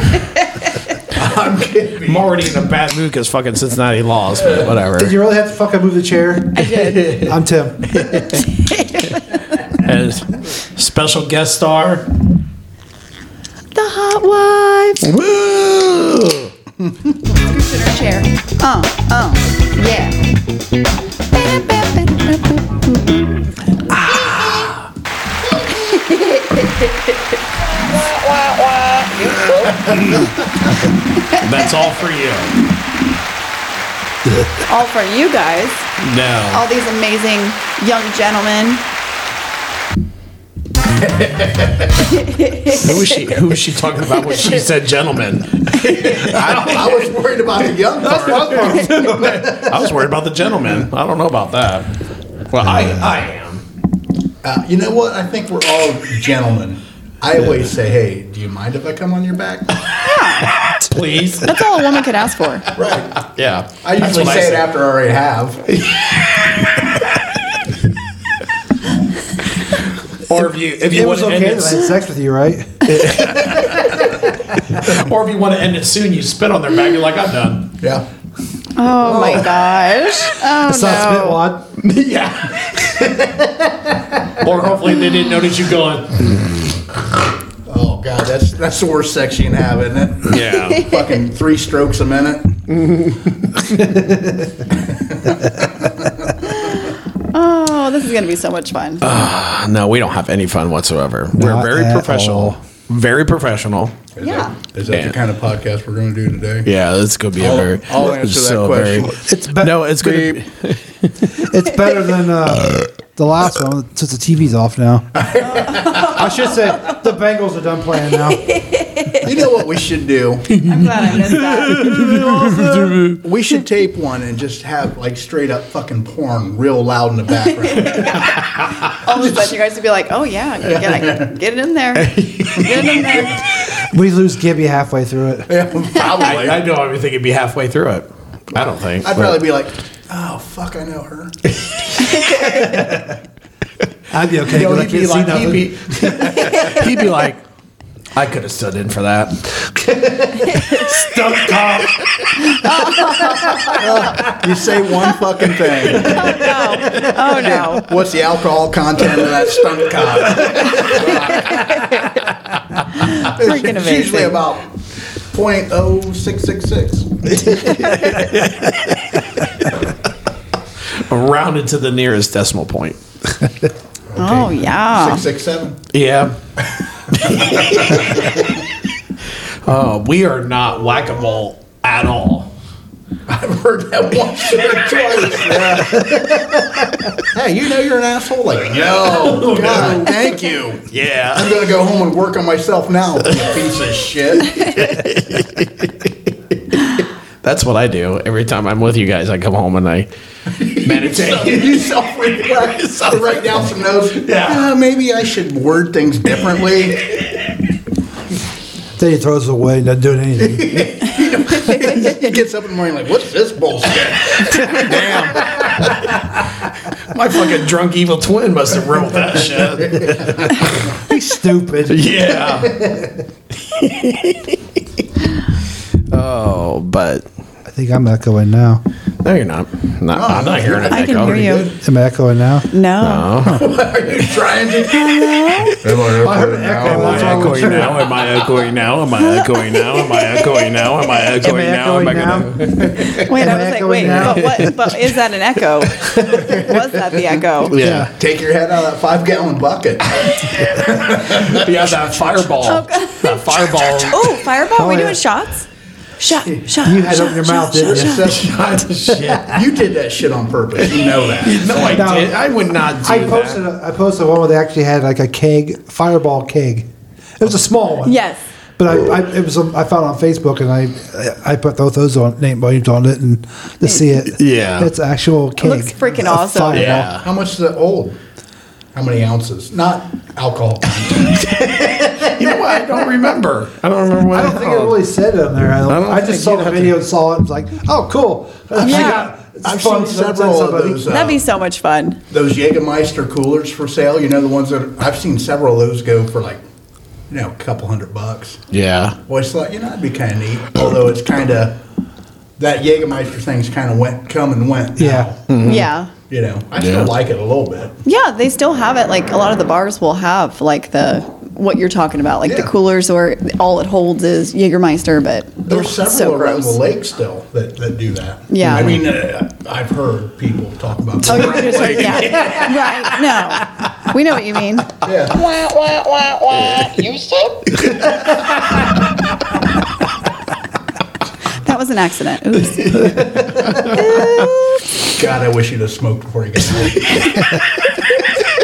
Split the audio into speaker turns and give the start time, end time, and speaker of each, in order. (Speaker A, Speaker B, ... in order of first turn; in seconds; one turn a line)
Speaker A: 1.1-2.3
Speaker B: 2.0-5.1
Speaker C: 5.0-8.4
Speaker D: 6.6-7.1
Speaker A: 6.8-7.3
Speaker B: 8.0-8.4
Speaker D: 8.5-9.2
Speaker B: 9.7-12.1
Speaker D: 13.7-15.1
Speaker B: 15.0-16.5
Speaker D: 17.4-20.2
Speaker D: 21.5-23.1
Speaker B: 24.0-24.8
Speaker D: 25.6-27.2
Speaker E: 27.8-30.1
Speaker B: 29.8-30.3
Speaker B: 31.3-32.6
Speaker D: 34.6-35.9
Speaker B: 36.0-36.6
Speaker D: 36.5-38.8
Speaker A: 41.0-42.1
Speaker D: 42.2-43.2
Speaker B: 42.7-47.1
Speaker A: 46.0-49.1
Speaker C: 48.0-49.8
Speaker B: 48.0-51.9
Speaker B: 52.5-53.6
Speaker A: 54.4-59.9
Speaker D: 59.9-60.6
Speaker B: 60.6-61.6
Speaker D: 61.4-62.7
Speaker A: 62.8-63.2
Speaker B: 63.1-64.7
Speaker A: 63.8-65.6
Speaker B: 65.7-67.1
Speaker B: 70.2-71.9
Speaker C: 70.8-74.9
Speaker B: 72.9-77.8
Speaker D: 73.8-74.0
Speaker A: 77.8-78.1
Speaker D: 78.8-81.4
Speaker C: 79.0-79.5
Speaker C: 80.6-81.7
Speaker B: 81.8-83.5
Speaker C: 83.0-84.3
Speaker B: 84.4-86.4
Speaker A: 87.7-92.6
Speaker B: 90.3-90.9
Speaker D: 90.6-91.0
Speaker B: 92.8-94.0
Speaker C: 93.9-94.5
Speaker A: 94.7-96.4
Speaker D: 96.4-99.1
Speaker B: 99.0-103.9
Speaker C: 101.4-102.6
Speaker A: 104.2-106.7
Speaker D: 104.2-104.5
Speaker B: 104.9-105.2
Speaker B: 106.6-111.5
Speaker A: 107.4-109.2
Speaker C: 109.0-109.8
Speaker A: 110.0-110.4
Speaker C: 111.4-115.1
Speaker A: 115.2-116.2
Speaker D: 115.4-117.0
Speaker C: 116.1-118.5
Speaker D: 118.1-119.3
Speaker A: 119.2-120.7
Speaker D: 120.6-122.8
Speaker B: 121.9-123.2
Speaker A: 122.6-128.4
Speaker D: 127.4-133.4
Speaker A: 130.7-131.3
Speaker B: 132.0-133.3
Speaker A: 132.7-133.0
Speaker C: 133.8-135.5
Speaker A: 135.5-136.7
Speaker B: 136.1-139.4
Speaker A: 138.6-141.4
Speaker D: 142.2-142.5
Speaker C: 142.4-143.2
Speaker C: 144.1-146.6
Speaker A: 144.5-146.8
Speaker B: 146.0-147.4
Speaker B: 148.1-152.3
Speaker C: 150.0-152.0
Speaker D: 152.4-153.8
Speaker C: 153.0-154.3
Speaker A: 153.8-156.6
Speaker D: 156.0-157.9
Speaker C: 156.0-157.1
Speaker A: 157.3-161.6
Speaker B: 160.3-161.7
Speaker C: 161.5-162.0
Speaker D: 161.6-162.0
Speaker D: 162.9-164.4
Speaker A: 163.2-167.6
Speaker B: 167.4-169.7
Speaker B: 170.9-173.0
Speaker A: 174.1-175.8
Speaker D: 174.2-175.2
Speaker B: 175.9-176.4
Speaker B: 177.1-178.6
Speaker A: 177.2-178.3
Speaker B: 179.6-182.5
Speaker A: 183.3-186.0
Speaker B: 184.9-186.2
Speaker C: 185.7-187.1
Speaker A: 187.3-190.8
Speaker B: 189.1-190.2
Speaker B: 190.9-191.6
Speaker A: 191.3-194.8
Speaker B: 193.3-193.7
Speaker B: 194.4-200.1
Speaker A: 200.6-207.1
Speaker B: 200.8-204.7
Speaker C: 209.0-210.9
Speaker A: 210.4-216.1
Speaker B: 214.4-216.3
Speaker B: 217.0-220.7
Speaker C: 221.0-223.2
Speaker B: 221.8-223.0
Speaker B: 223.6-224.6
Speaker B: 226.1-227.3
Speaker C: 227.7-228.8
Speaker B: 229.2-231.5
Speaker A: 230.1-231.8
Speaker D: 230.9-231.7
Speaker C: 231.8-232.7
Speaker D: 232.7-233.3
Speaker B: 233.0-233.7
Speaker A: 233.4-238.2
Speaker D: 234.9-235.8
Speaker C: 236.1-238.1
Speaker B: 236.7-244.8
Speaker D: 239.2-241.4
Speaker C: 241.4-244.7
Speaker D: 243.2-247.8
Speaker B: 246.0-246.6
Speaker B: 247.6-248.1
Speaker C: 247.8-248.1
Speaker A: 248.1-251.8
Speaker B: 250.3-254.4
Speaker D: 252.6-255.7
Speaker C: 254.8-255.2
Speaker D: 256.2-258.5
Speaker C: 256.8-258.4
Speaker A: 257.9-262.1
Speaker B: 258.3-259.6
Speaker C: 259.1-259.4
Speaker B: 260.8-263.6
Speaker C: 261.8-262.4
Speaker C: 263.0-266.9
Speaker C: 267.4-268.2
Speaker D: 268.0-268.4
Speaker C: 268.8-277.1
Speaker D: 273.8-274.1
Speaker B: 274.3-274.9
Speaker D: 275.6-277.0
Speaker B: 276.7-277.3
Speaker A: 277.0-278.2
Speaker A: 278.9-281.4
Speaker C: 281.4-282.6
Speaker B: 282.2-285.0
Speaker C: 284.1-291.3
Speaker B: 285.9-287.0
Speaker A: 288.8-291.4
Speaker D: 288.8-289.3
Speaker D: 291.1-292.2
Speaker A: 292.3-296.6
Speaker A: 297.3-298.6
Speaker B: 298.7-299.2
Speaker A: 299.3-301.8
Speaker A: 302.6-305.4
Speaker C: 305.0-305.3
Speaker B: 305.5-305.9
Speaker D: 305.6-306.1
Speaker A: 306.3-308.0
Speaker B: 306.8-307.1
Speaker D: 308.1-316.8
Speaker A: 312.4-312.7
Speaker A: 315.7-322.4
Speaker D: 318.5-319.0
Speaker D: 321.2-325.1
Speaker B: 321.3-323.2
Speaker A: 325.1-325.4
Speaker E: 325.5-327.7
Speaker D: 331.6-333.1
Speaker B: 332.9-334.2
Speaker D: 333.9-334.8
Speaker A: 335.0-337.4